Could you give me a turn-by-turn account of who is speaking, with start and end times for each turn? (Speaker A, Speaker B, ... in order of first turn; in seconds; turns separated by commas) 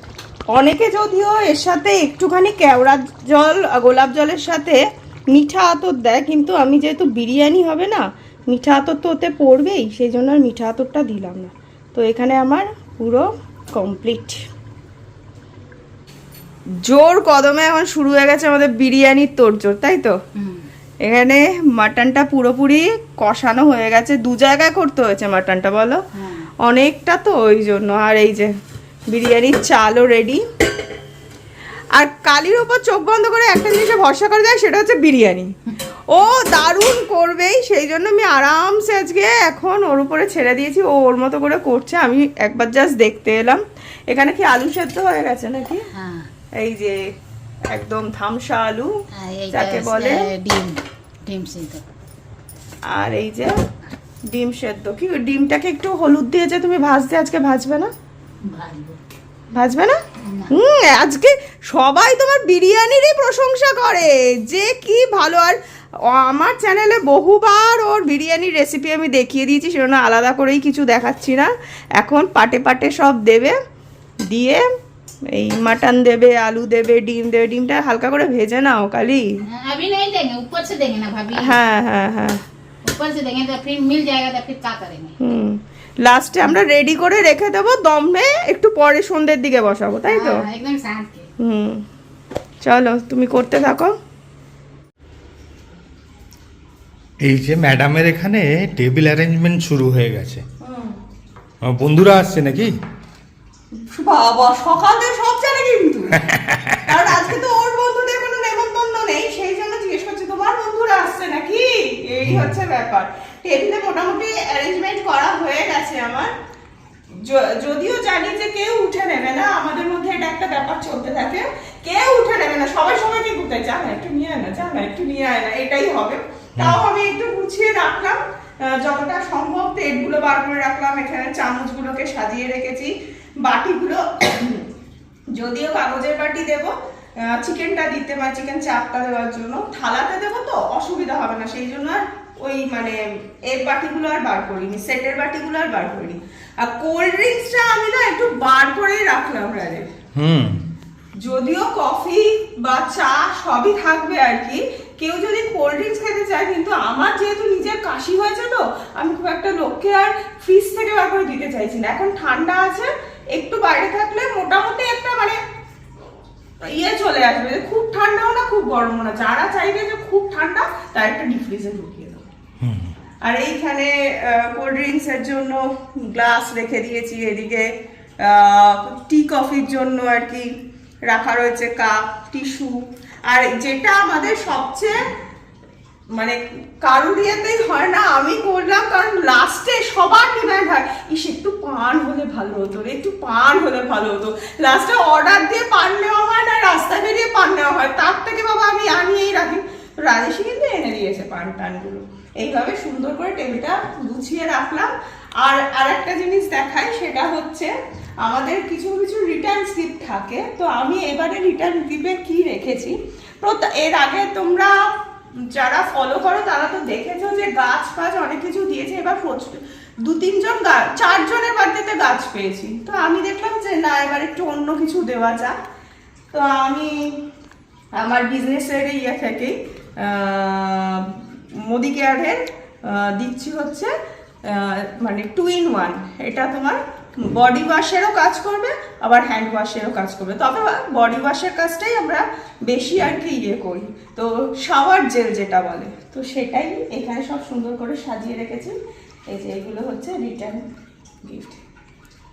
Speaker A: 0.5-4.8, Speaker A: 5.3-14.4, Speaker A: 16.8-20.1, Speaker B: 20.4-20.7, Speaker A: 21.0-26.0, Speaker B: 26.2-26.5, Speaker A: 26.6-28.5, Speaker A: 29.1-30.4, Speaker A: 31.9-35.5, Speaker A: 36.1-45.9, Speaker B: 45.9-46.3, Speaker A: 46.6-47.0, Speaker A: 47.7-48.9, Speaker B: 49.2-51.8, Speaker A: 49.5-50.3, Speaker A: 52.9-53.5, Speaker A: 54.3-57.9, Speaker B: 58.5-59.0, Speaker A: 59.5-60.0, Speaker B: 60.2-60.5, Speaker A: 60.5-73.5, Speaker A: 74.3-74.6, Speaker A: 75.3-79.2, Speaker B: 79.5-81.6, Speaker A: 81.3-82.4, Speaker B: 82.8-85.1, Speaker A: 85.2-90.4, Speaker B: 90.1-91.3, Speaker A: 91.4-91.8, Speaker A: 92.6-94.0, Speaker C: 97.2-100.4, Speaker A: 100.6-100.9, Speaker C: 101.7-102.7, Speaker A: 103.8-106.2, Speaker C: 106.3-106.8, Speaker A: 106.9-116.3, Speaker C: 112.3-112.5, Speaker A: 117.2-132.9, Speaker A: 133.4-134.7, Speaker A: 135.3-149.9, Speaker C: 150.2-150.6, Speaker A: 151.2-165.4, Speaker A: 166.6-172.3, Speaker C: 172.6-172.9, Speaker A: 173.2-177.7, Speaker A: 178.2-180.5, Speaker A: 181.1-184.9, Speaker A: 186.1-204.9, Speaker A: 205.4-207.7, Speaker A: 208.2-214.7, Speaker A: 215.5-225.6, Speaker A: 226.3-227.2, Speaker A: 227.9-233.9, Speaker A: 234.4-248.8, Speaker A: 249.3-250.6, Speaker A: 251.2-251.6